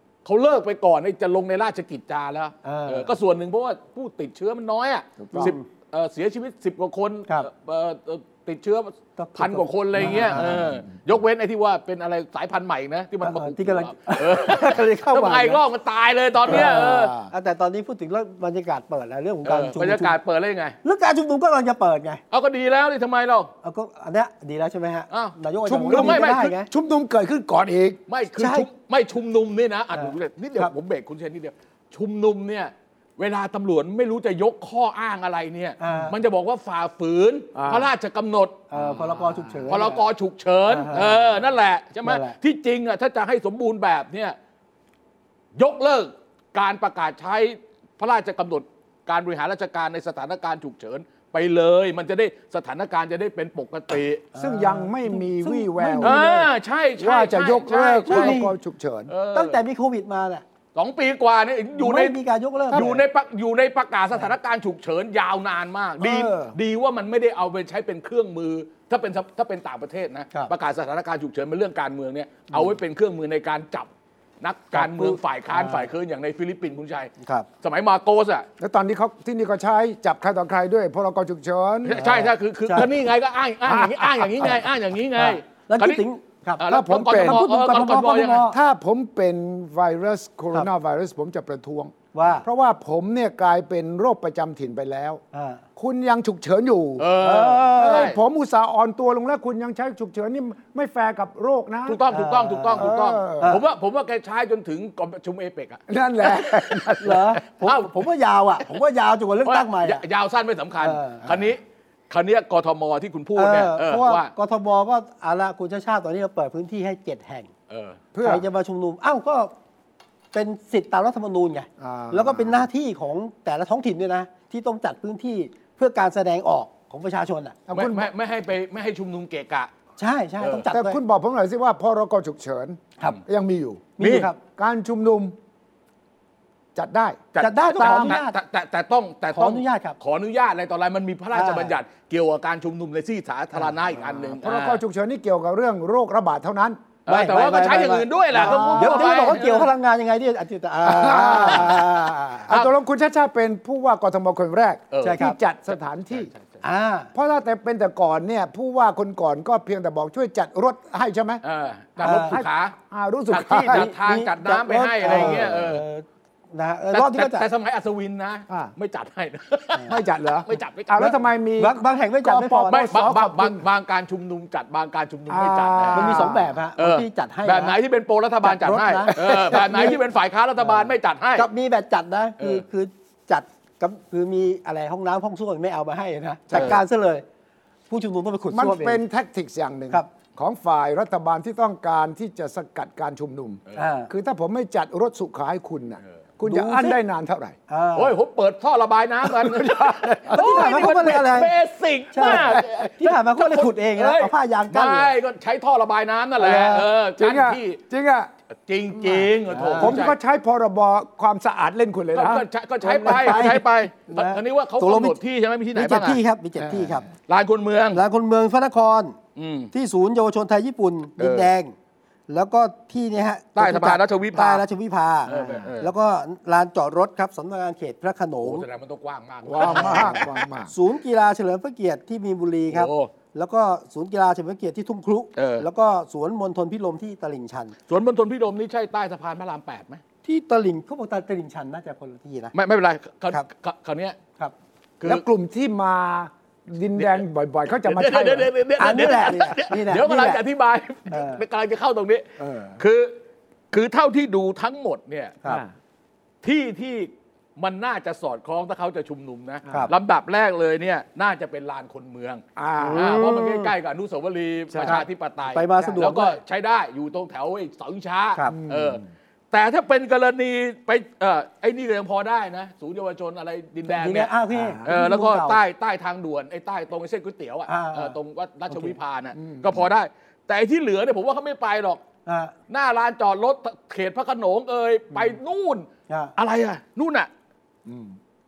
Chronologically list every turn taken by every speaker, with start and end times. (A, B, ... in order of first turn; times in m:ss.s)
0:00.2-0:17.2 A
0:02.6-0:03.1 B
0:05.2-0:05.6 C
0:05.3-0:05.6 B
0:09.2-0:10.6 B
0:10.0-0:10.8 C
0:13.2-0:15.6 B
0:16.4-0:17.3 C
0:16.5-0:20.2 B
0:19.4-0:20.8 A
0:20.8-0:22.2 B
0:22.3-0:23.5 A
0:23.6-0:26.7 B
0:25.1-0:25.4 A
0:25.6-0:28.0 C
0:25.9-0:26.5 A
0:28.1-0:44.4 A
0:28.4-0:28.7 B
0:29.9-0:30.7 B
0:35.8-0:36.1 B
0:37.6-0:37.9 C
0:38.7-0:40.0 B
0:40.7-0:41.4 B
0:42.0-0:42.4 B
0:45.6-0:54.2 A
0:54.4-0:56.4 B
0:54.4-0:56.5 C
0:56.0-0:58.4 A
0:57.0-0:59.1 C
0:58.1-0:58.5 B
0:59.1-0:59.6 A
0:59.3-1:00.4 B
1:00.8-1:02.2 A
1:01.8-1:03.0 B
1:02.7-1:13.9 A
1:02.7-1:03.0 C
1:06.0-1:06.6 C
1:14.4-1:18.5 A
1:14.7-1:15.9 B
1:17.2-1:17.5 B
1:18.6-1:22.1 C
1:21.8-1:26.0 A
1:22.0-1:22.9 B
1:23.7-1:24.6 C
1:25.2-1:28.6 B
1:26.6-1:28.5 A
1:26.6-1:35.2 C
1:32.1-1:32.4 B
1:35.3-1:35.6 B
1:35.8-1:37.1 C
1:37.0-1:38.2 A
1:37.2-1:38.1 B
1:37.8-1:42.0 C
1:41.9-1:46.9 A
1:42.1-1:43.6 B
1:42.8-1:43.6 C
1:45.9-1:47.3 C
1:47.0-1:50.0 B
1:47.6-1:48.0 A
1:49.4-1:54.3 A
1:50.8-1:51.5 B
1:53.4-1:57.5 B
1:57.7-1:58.0 A
1:58.1-1:58.4 C
1:58.2-1:59.6 B
2:00.3-2:07.6 B
2:01.8-2:02.7 C
2:07.7-2:08.1 C
2:07.7-2:09.7 A
2:10.0-2:11.0 B
2:10.4-2:10.7 A
2:10.7-2:15.4 C
2:14.0-2:14.4 B
2:16.8-2:18.2 C
2:17.3-2:24.8 A
2:17.4-2:18.4 B
2:19.3-2:20.0 B
2:21.3-2:21.8 B
2:23.6-2:24.2 B
2:24.3-2:26.8 C
2:27.1-2:29.7 A
2:27.1-2:32.5 B
2:28.3-2:29.3 C
2:30.8-2:31.9 C
2:32.5-2:36.3 C
2:34.9-2:35.2 A
2:35.0-2:35.4 B
2:36.1-2:36.6 A
2:36.6-2:37.1 B
2:37.2-2:41.4 C
2:41.4-2:42.8 A
2:42.0-2:43.9 C
2:42.0-2:42.4 B
2:43.3-2:45.8 A
2:43.6-2:47.5 B
2:45.1-2:45.7 C
2:46.9-2:51.2 A
2:48.5-2:48.8 C
2:49.9-2:53.6 C
2:51.6-2:52.8 B
2:52.7-3:01.5 A
2:55.3-2:56.5 C
2:55.9-2:57.8 B
2:58.4-3:00.0 B
2:59.1-3:00.0 C
3:00.6-3:07.2 B
3:06.5-3:06.8 A
3:06.5-3:06.8 C
3:07.9-3:09.0 B
3:08.5-3:17.6 C
3:13.8-3:14.1 B
3:16.4-3:17.0 B
3:17.7-3:18.2 B
3:18.0-3:27.8 A
3:19.2-3:20.8 C
3:20.3-3:21.5 B
3:22.1-3:25.1 B
3:22.2-3:22.7 C
3:26.4-3:26.9 B
3:27.2-3:28.3 C
3:28.6-3:30.2 A
3:29.0-3:32.5 C
3:29.5-3:30.0 B
3:32.1-3:36.2 A
3:32.8-3:35.2 B
3:33.0-3:33.4 C
3:35.8-3:37.1 B
3:36.6-3:37.0 C
3:37.3-3:38.0 A
3:37.9-3:39.2 B
3:39.4-3:39.7 A
3:39.7-3:41.8 B
3:41.2-3:41.5 A
3:42.3-3:48.6 B
3:43.6-3:44.6 A
3:45.3-3:45.9 A
3:45.3-3:45.7 C
3:48.4-3:50.4 A
3:49.4-3:50.7 C
3:49.6-3:57.8 B
3:52.7-3:53.1 A
3:55.4-3:55.7 A
3:57.9-4:00.0 A
4:00.2-4:02.5 B
4:02.5-4:04.2 A
4:05.0-4:05.3 A
4:05.0-4:08.5 C
4:07.0-4:13.2 A
4:08.8-4:10.4 B
4:11.1-4:11.4 B
4:12.4-4:12.8 C
4:13.7-4:15.4 A
4:15.4-4:15.7 C
4:16.4-4:34.4 A
4:22.6-4:23.2 C
4:22.8-4:23.7 B
4:24.7-4:25.0 C
4:24.8-4:26.4 B
4:25.8-4:26.0 C
4:28.5-4:29.1 C
4:33.9-4:35.6 B
4:34.5-4:35.0 C
4:34.9-4:42.0 A
4:37.7-4:38.2 B
4:38.7-4:39.0 B
4:39.4-4:39.9 C
4:42.3-4:42.5 B
4:42.7-4:47.3 A
4:46.1-4:46.3 B
4:47.9-4:48.2 C